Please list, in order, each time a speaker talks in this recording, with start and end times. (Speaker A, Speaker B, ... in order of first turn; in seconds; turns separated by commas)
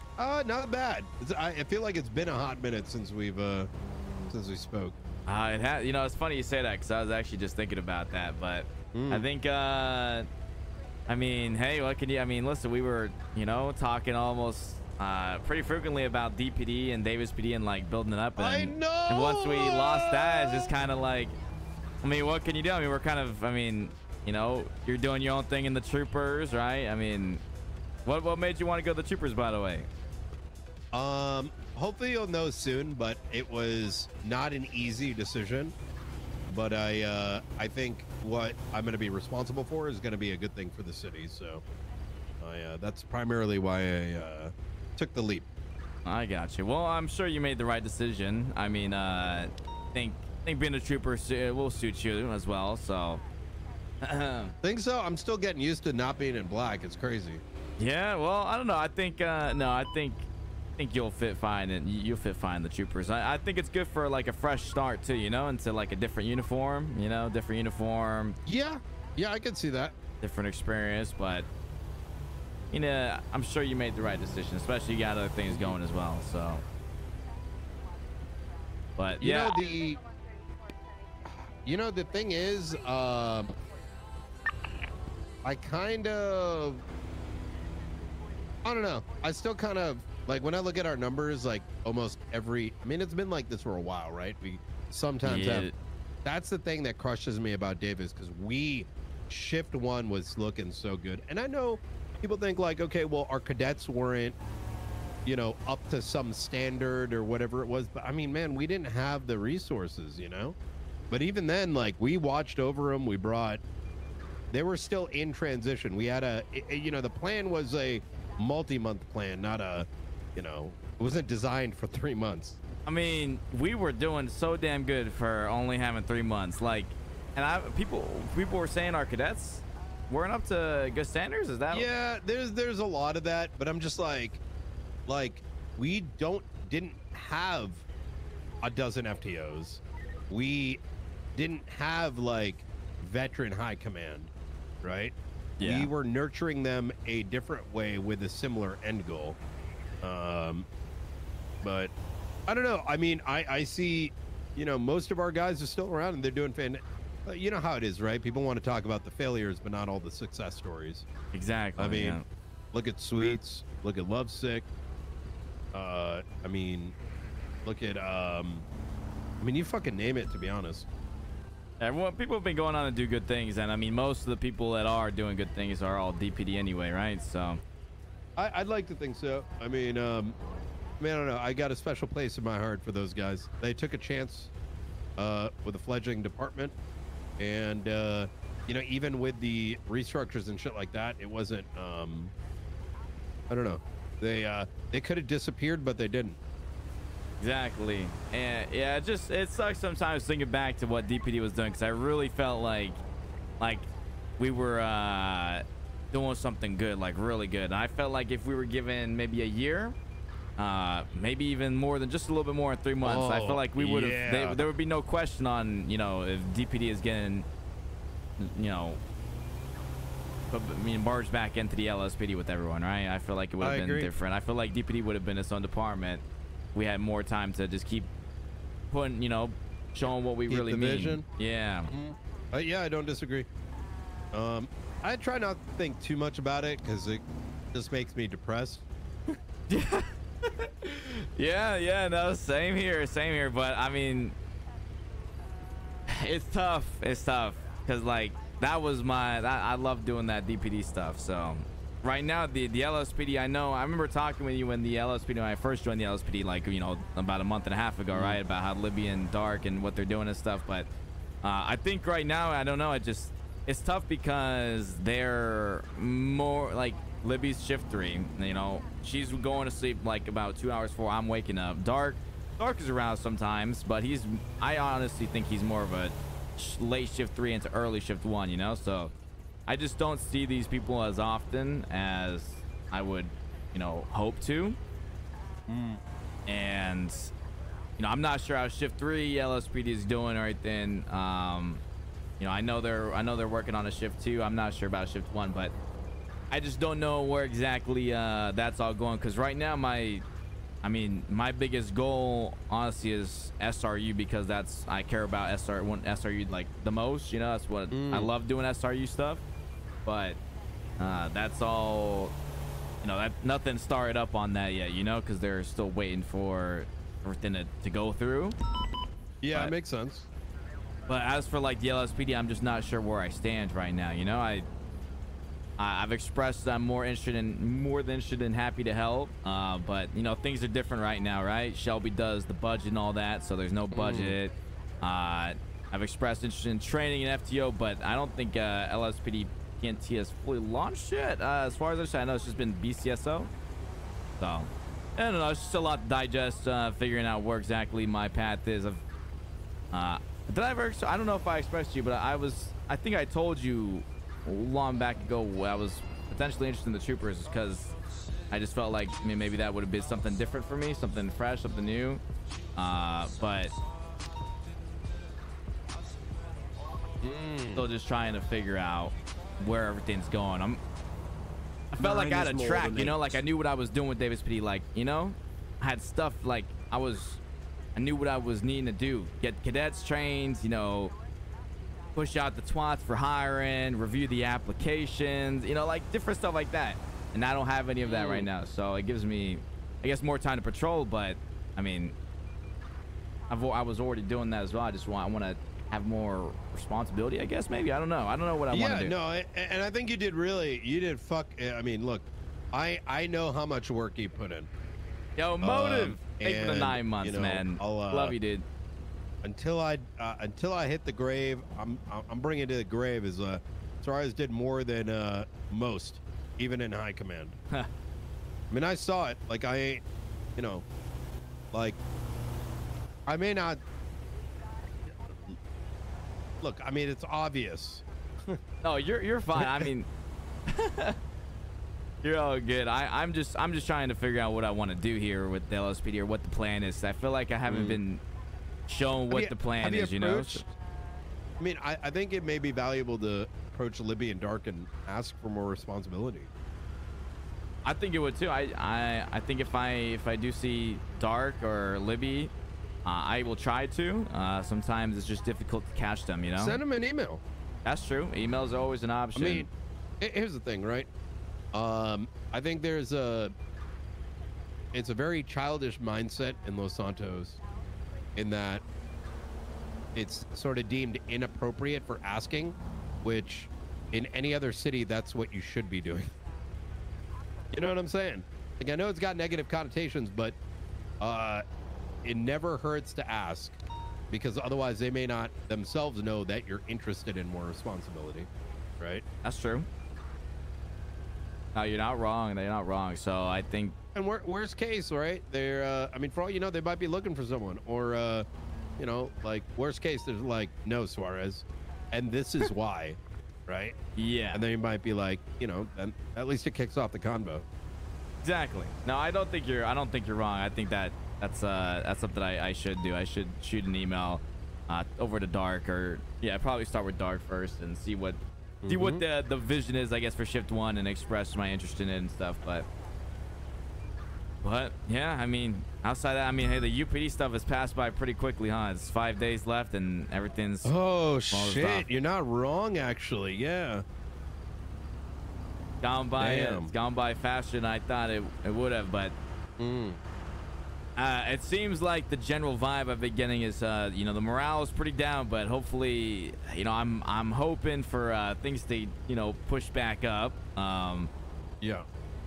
Speaker A: 0.2-3.7, Speaker A: 4.3-5.0, Speaker B: 5.2-10.3, Speaker A: 8.9-9.3, Speaker B: 11.1-21.3, Speaker A: 18.4-20.7, Speaker B: 22.0-27.4, Speaker B: 28.1-29.9, Speaker A: 30.9-35.7, Speaker A: 36.5-41.6, Speaker A: 42.4-45.5, Speaker B: 46.0-53.2, Speaker B: 54.0-54.5, Speaker A: 54.6-57.4, Speaker B: 57.8-68.3, Speaker A: 68.5-69.9, Speaker B: 70.2-71.5, Speaker B: 72.7-76.6, Speaker A: 75.5-75.8, Speaker B: 79.0-79.6, Speaker A: 79.2-80.0, Speaker A: 81.2-83.5, Speaker A: 85.4-86.8, Speaker A: 88.6-95.7, Speaker B: 95.2-95.8, Speaker A: 96.2-104.3, Speaker A: 105.2-110.5, Speaker A: 111.1-113.6, Speaker A: 114.5-122.6, Speaker B: 122.9-131.9, Speaker A: 131.7-134.4, Speaker A: 135.1-137.8, Speaker A: 138.6-140.8, Speaker A: 141.3-144.3, Speaker A: 144.8-149.4, Speaker B: 145.6-145.9, Speaker A: 150.0-150.7, Speaker A: 151.6-151.9, Speaker A: 152.5-161.1, Speaker B: 161.3-162.2, Speaker A: 161.8-162.2, Speaker A: 162.7-164.7, Speaker A: 165.7-166.9, Speaker A: 167.7-168.7, Speaker A: 169.4-170.9, Speaker B: 171.8-177.6, Speaker A: 178.4-180.4, Speaker A: 181.0-184.5, Speaker A: 185.2-186.7, Speaker A: 187.4-192.3, Speaker A: 193.5-196.4, Speaker B: 197.4-203.0, Speaker B: 203.6-210.0, Speaker B: 210.6-217.5, Speaker A: 213.0-214.6, Speaker B: 218.4-219.0, Speaker B: 220.5-226.2, Speaker A: 223.6-224.1, Speaker B: 226.8-228.1, Speaker B: 228.9-231.9, Speaker A: 230.5-231.2, Speaker A: 231.9-233.5, Speaker A: 234.3-238.8, Speaker B: 239.7-244.3, Speaker B: 246.1-260.9, Speaker A: 258.1-258.4, Speaker B: 261.4-279.1, Speaker B: 279.7-284.8, Speaker A: 285.7-286.0, Speaker B: 286.5-287.3, Speaker B: 288.0-291.8, Speaker B: 292.4-295.7, Speaker B: 296.5-300.2, Speaker B: 300.8-309.4, Speaker A: 307.9-308.3, Speaker B: 310.0-310.4, Speaker B: 311.0-312.3, Speaker B: 313.0-318.5, Speaker A: 319.4-320.3, Speaker B: 321.1-324.7, Speaker B: 325.8-343.5, Speaker A: 333.9-334.4, Speaker B: 344.4-349.0, Speaker B: 349.9-357.9, Speaker B: 358.5-362.2, Speaker B: 362.8-363.7, Speaker A: 367.2-367.9, Speaker B: 367.8-370.8, Speaker B: 371.9-377.4, Speaker A: 372.0-373.4, Speaker B: 377.9-381.1, Speaker B: 382.1-392.1, Speaker A: 388.0-388.5, Speaker B: 393.5-399.1, Speaker A: 398.7-404.7, Speaker B: 405.4-408.6, Speaker A: 405.6-408.4, Speaker A: 409.4-417.6, Speaker A: 418.7-420.0, Speaker A: 420.6-420.8, Speaker A: 421.7-422.0, Speaker A: 423.3-423.8, Speaker A: 425.1-425.6, Speaker A: 426.6-428.6, Speaker B: 428.8-430.1, Speaker A: 429.5-429.9, Speaker B: 430.7-431.2, Speaker B: 432.2-438.2, Speaker A: 437.7-438.0, Speaker B: 438.9-440.6, Speaker A: 439.3-440.7, Speaker A: 441.6-446.5, Speaker B: 447.8-452.5, Speaker B: 453.0-456.8, Speaker A: 456.6-457.4, Speaker B: 457.8-459.7, Speaker A: 459.3-459.7, Speaker A: 460.2-461.1, Speaker A: 461.7-463.5, Speaker A: 464.9-467.6, Speaker A: 468.4-468.8, Speaker A: 470.1-476.3, Speaker A: 477.7-480.6, Speaker A: 481.2-481.6, Speaker A: 482.2-483.8, Speaker A: 484.3-488.5, Speaker B: 489.4-489.9, Speaker B: 491.8-493.9, Speaker A: 494.1-498.4, Speaker A: 499.0-503.9, Speaker B: 504.1-504.6, Speaker A: 504.5-507.6, Speaker B: 508.4-522.9, Speaker A: 518.8-519.2, Speaker B: 524.6-530.9, Speaker A: 530.8-534.0, Speaker B: 531.5-532.1, Speaker B: 536.0-539.4, Speaker A: 536.4-536.9, Speaker A: 539.8-540.2, Speaker B: 541.2-551.3